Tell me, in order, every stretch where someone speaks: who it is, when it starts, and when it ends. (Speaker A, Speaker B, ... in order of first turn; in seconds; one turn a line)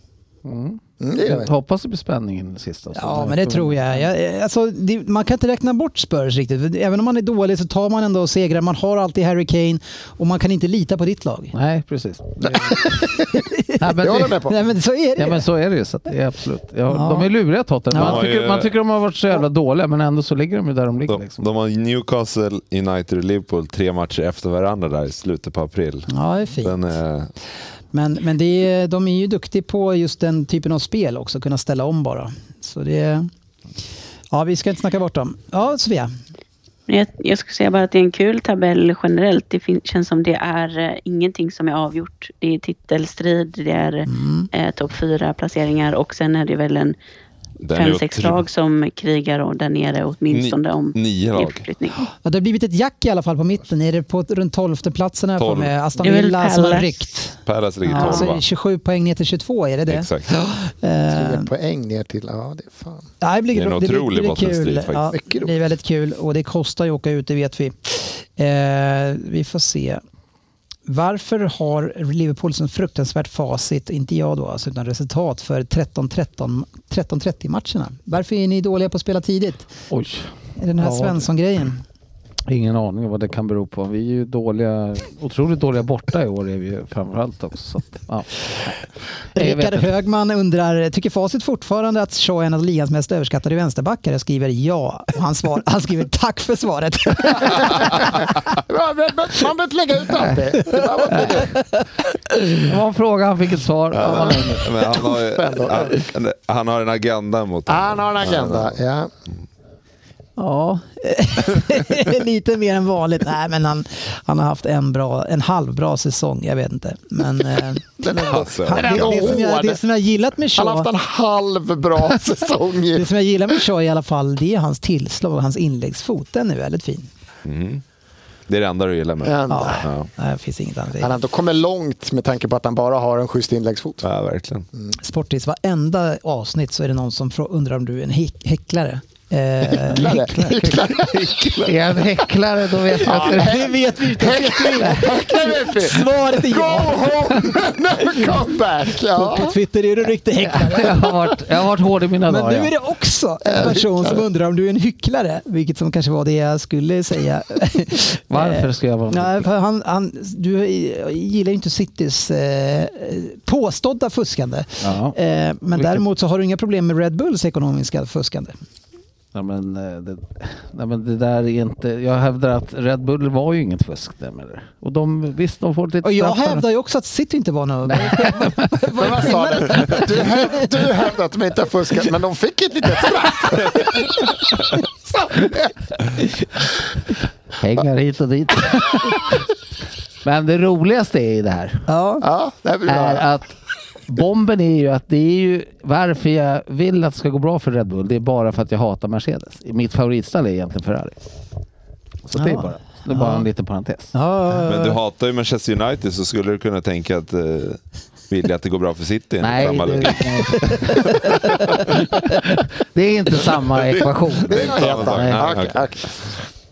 Speaker A: 0.4-4.1
Speaker B: 1.0-1.5
Speaker C: 2.9-11.5
Speaker A: 11.5-12.9
Speaker B: 12.4-12.7
Speaker C: 12.9-15.5
Speaker A: 13.8-14.4
Speaker B: 14.0-14.6
Speaker A: 15.2-21.4
Speaker C: 16.9-17.3
Speaker C: 17.9-18.2
Speaker D: 17.9-18.7
Speaker D: 21.1-27.3
Speaker C: 26.1-26.8
Speaker C: 27.9-33.3
Speaker C: 34.3-36.1
Speaker E: 36.9-47.0
Speaker C: 44.0-44.5
Speaker D: 47.6-48.4
Speaker E: 47.7-52.0
Speaker D: 50.3-51.7
Speaker C: 52.2-61.5
Speaker D: 55.4-55.7
Speaker E: 56.0-56.9
Speaker D: 57.4-58.4
Speaker E: 58.0-58.2
Speaker D: 59.9-60.3
Speaker B: 61.1-63.0
Speaker C: 63.2-70.0
Speaker D: 63.5-65.1
Speaker B: 65.2-65.5
Speaker C: 70.9-79.7
Speaker A: 79.9-81.3
Speaker C: 80.6-81.8
Speaker A: 82.5-88.7
Speaker C: 89.3-98.2
Speaker A: 89.3-89.9
Speaker B: 98.7-101.6
Speaker C: 100.7-101.8
Speaker A: 102.6-104.7
Speaker D: 103.9-108.8
Speaker B: 104.0-106.1
Speaker B: 107.7-109.1
Speaker C: 110.4-120.9
Speaker B: 118.0-119.8
Speaker D: 118.2-119.4
Speaker B: 120.6-123.1
Speaker C: 122.9-127.1
Speaker D: 127.4-127.8
Speaker D: 128.5-130.1
Speaker B: 129.2-129.8
Speaker C: 129.5-131.2
Speaker B: 131.0-134.1
Speaker D: 134.0-134.7
Speaker C: 135.0-140.9
Speaker B: 139.8-141.9
Speaker A: 140.0-140.8
Speaker A: 141.6-143.7
Speaker C: 142.9-147.5
Speaker B: 143.0-149.5
Speaker C: 149.1-151.4
Speaker A: 150.4-152.7
Speaker C: 152.2-168.5
Speaker B: 153.5-154.1
Speaker A: 158.3-159.5
Speaker A: 164.8-165.2
Speaker A: 165.7-166.0
Speaker A: 169.3-176.6
Speaker C: 176.0-180.8
Speaker A: 177.9-178.6
Speaker B: 178.9-184.3
Speaker B: 185.1-185.7
Speaker A: 187.6-189.3
Speaker A: 190.2-191.8
Speaker C: 191.9-192.2
Speaker B: 192.2-193.3
Speaker A: 192.8-193.5
Speaker A: 194.1-201.2
Speaker A: 202.2-204.1
Speaker C: 202.3-203.5
Speaker C: 204.1-205.0
Speaker D: 204.6-212.0
Speaker A: 209.4-211.2
Speaker A: 211.9-215.6
Speaker D: 213.9-216.0
Speaker B: 214.5-216.1